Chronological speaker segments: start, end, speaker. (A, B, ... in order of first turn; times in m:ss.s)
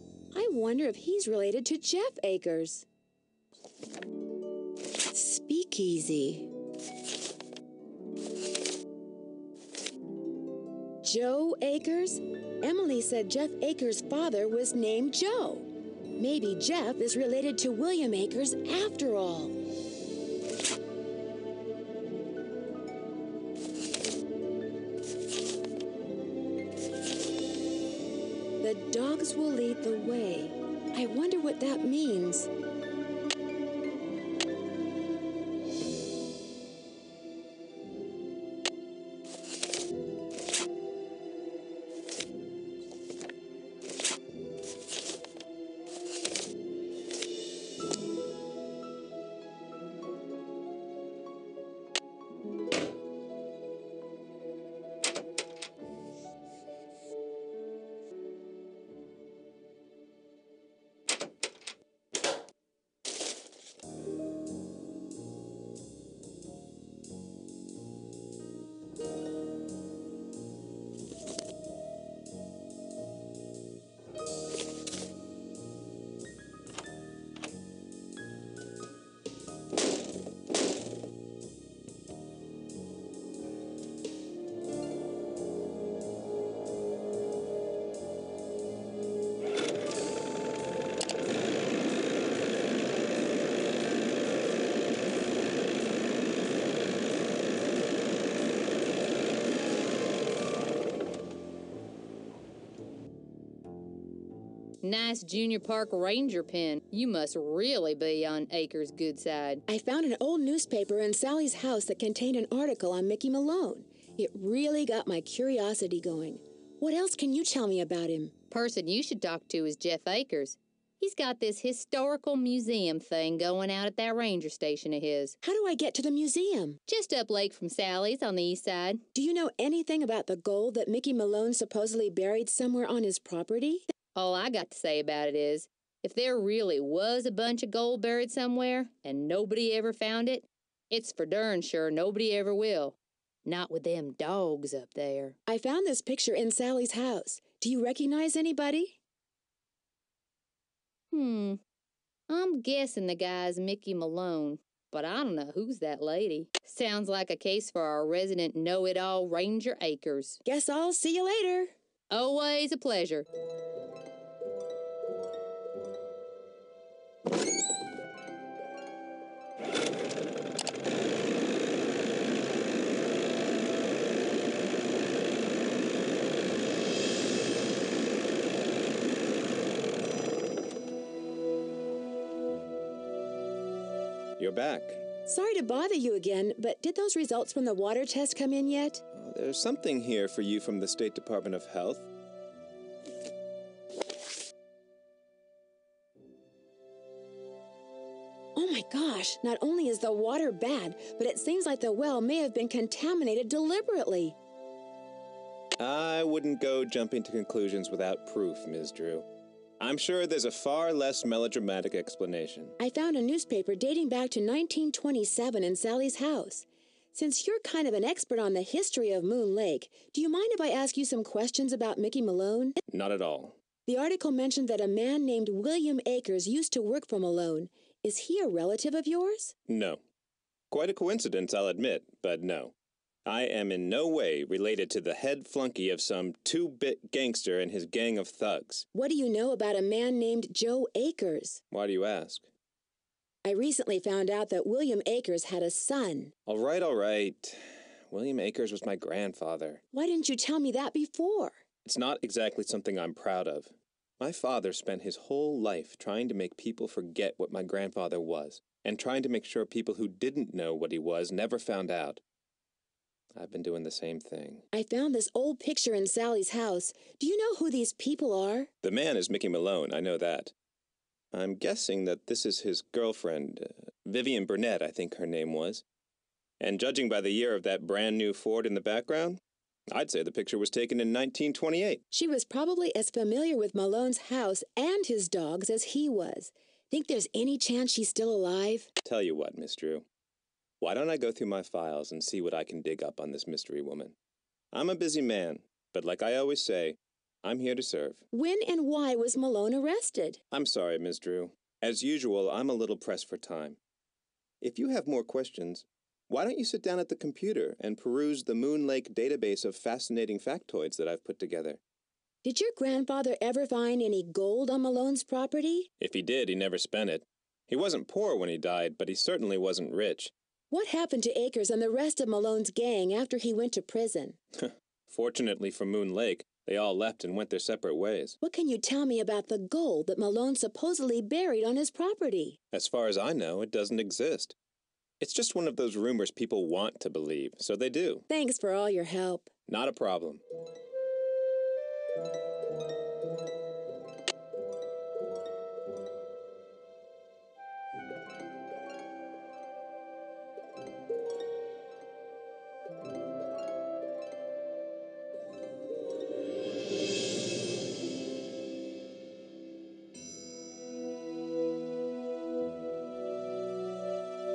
0:00.3-0:02.9 A
0:05.1-0:06.5 A
0:11.0-0:19.6 A
0:28.6-0:32.5 A
1:44.8-1:49.6 B
1:49.7-1:58.3 A
1:58.5-2:05.4 B
2:05.4-2:06.8 A
2:06.9-2:09.0 B
2:09.1-2:13.9 A
2:14.2-2:25.4 B
2:25.5-2:29.0 A
2:31.1-2:31.6 B
2:32.3-2:40.4 B
2:40.4-2:41.7 A
2:42.1-2:43.3 B
3:04.4-3:05.0 C
3:05.3-3:09.0 A
3:09.1-3:12.1 C
3:18.6-3:24.4 A
3:25.8-3:29.3 C
3:29.8-3:32.8 C
3:32.8-3:42.8 A
3:42.9-3:43.6 C
3:43.9-3:49.5 A
3:49.7-3:50.0 C
3:50.7-3:52.7 C
3:53.3-3:58.9 C
3:58.9-4:01.6 A
4:01.7-4:02.5 C
4:03.4-4:06.3 A
4:06.5-4:09.8 C
4:09.9-4:11.6 A
4:11.8-4:22.2 C
4:23.4-4:24.6 C
4:24.7-4:28.7 A
4:28.8-4:30.5 C
4:31.3-4:35.8 C
4:36.6-4:39.4 C
4:39.9-4:42.0 C
4:42.1-4:48.9 A
4:49.0-4:50.0 C
4:50.8-4:54.1 C
4:54.7-4:58.2 C
4:58.3-5:00.4 A
5:00.5-5:03.8 C
5:04.6-5:11.8 C
5:12.4-5:15.9 A
5:16.0-5:20.3 C
5:20.7-5:24.4 A
5:24.6-5:28.4 C
5:28.4-5:32.6 A
5:32.7-5:34.6 C
5:35.2-5:38.2 C
5:38.3-5:39.5 A
5:39.7-5:40.4 C